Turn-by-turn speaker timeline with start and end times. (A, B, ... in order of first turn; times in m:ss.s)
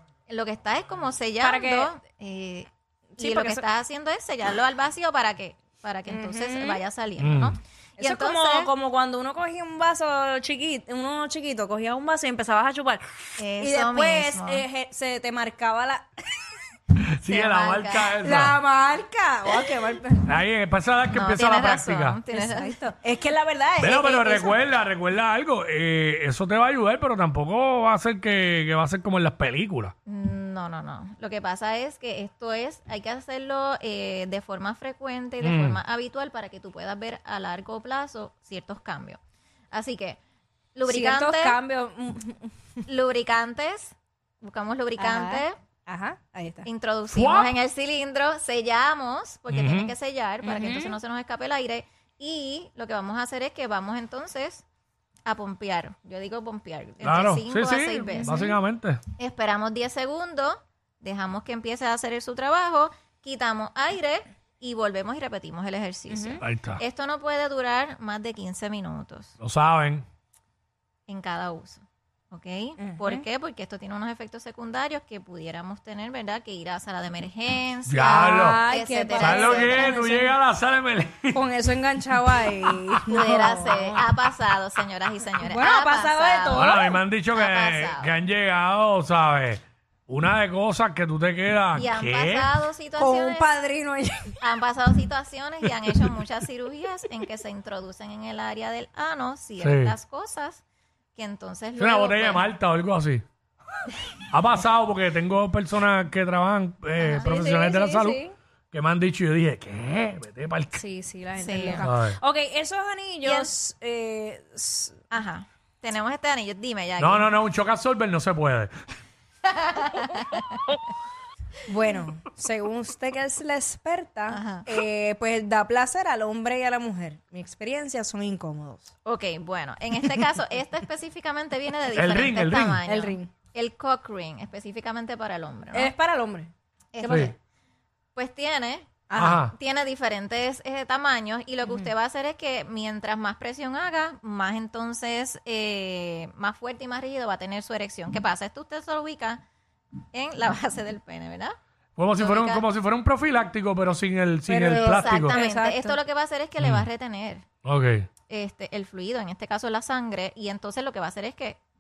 0:00.3-0:08.7 A
0:01.4-0:01.9 B
0:03.2-0:03.6 B
0:06.1-0:06.8 B
0:07.2-0:07.6 C
0:08.0-0:16.4 B
0:13.4-0:14.6 A
0:17.2-0:18.6 C
0:17.3-0:18.1 A
0:18.2-0:20.3 B
0:20.3-0:22.2 C
0:21.1-0:22.8 A
0:22.3-0:24.7 B
0:23.8-0:29.9 C
0:30.1-0:39.2 A
0:35.4-0:35.8 C
0:39.7-0:40.2 A
0:40.8-0:41.6 A
0:40.8-0:42.5 B
0:42.9-0:45.6 A
0:45.0-0:46.7 B
0:46.6-0:54.6 A
0:47.1-0:47.6 C
0:49.5-0:49.9 C
0:50.4-0:51.0 B
0:55.3-0:58.4 A
0:57.0-0:59.0 C
0:58.2-0:58.6 B
0:59.2-1:09.4 A
1:06.1-1:06.4 B
1:06.4-1:06.8 C
1:09.4-1:10.0 C
1:11.1-1:20.0 A
1:12.8-1:13.2 B
1:17.9-1:18.6 C
1:18.1-1:20.3 B
1:19.2-1:21.4 C
1:21.3-1:24.0 B
1:23.1-1:26.8 A
1:25.4-1:27.0 B
1:26.5-1:32.5 C
1:27.3-1:28.1 A
1:31.7-1:33.6 A
1:33.0-1:34.4 B
1:34.4-1:40.6 A
1:39.6-1:39.9 C
1:41.2-1:42.5 A
1:41.8-1:43.2 C
1:44.3-1:50.8 C
1:47.0-1:47.4 A
1:47.2-1:48.4 B
1:50.8-1:55.0 B
1:51.4-1:51.9 A
1:51.8-1:52.2 C
1:53.2-1:53.5 A
1:55.1-1:57.3 A
1:57.0-1:58.7 C
1:59.4-2:00.6 A
2:01.7-2:08.9 B
2:04.3-2:04.7 A
2:09.0-2:15.9 A
2:12.0-2:12.8 C
2:12.9-2:13.3 B
2:15.7-2:17.3 B
2:16.9-2:17.4 A
2:17.0-2:17.3 C
2:18.2-2:29.4 A
2:19.1-2:19.4 B
2:19.2-2:19.5 C
2:21.6-2:21.9 B
2:30.1-2:31.6 A
2:32.0-2:35.4 C
2:32.2-2:32.7 A
2:34.5-2:36.0 B
2:34.7-2:37.4 A
2:36.6-2:36.9 C
2:37.6-2:38.1 C
2:38.3-2:41.6 A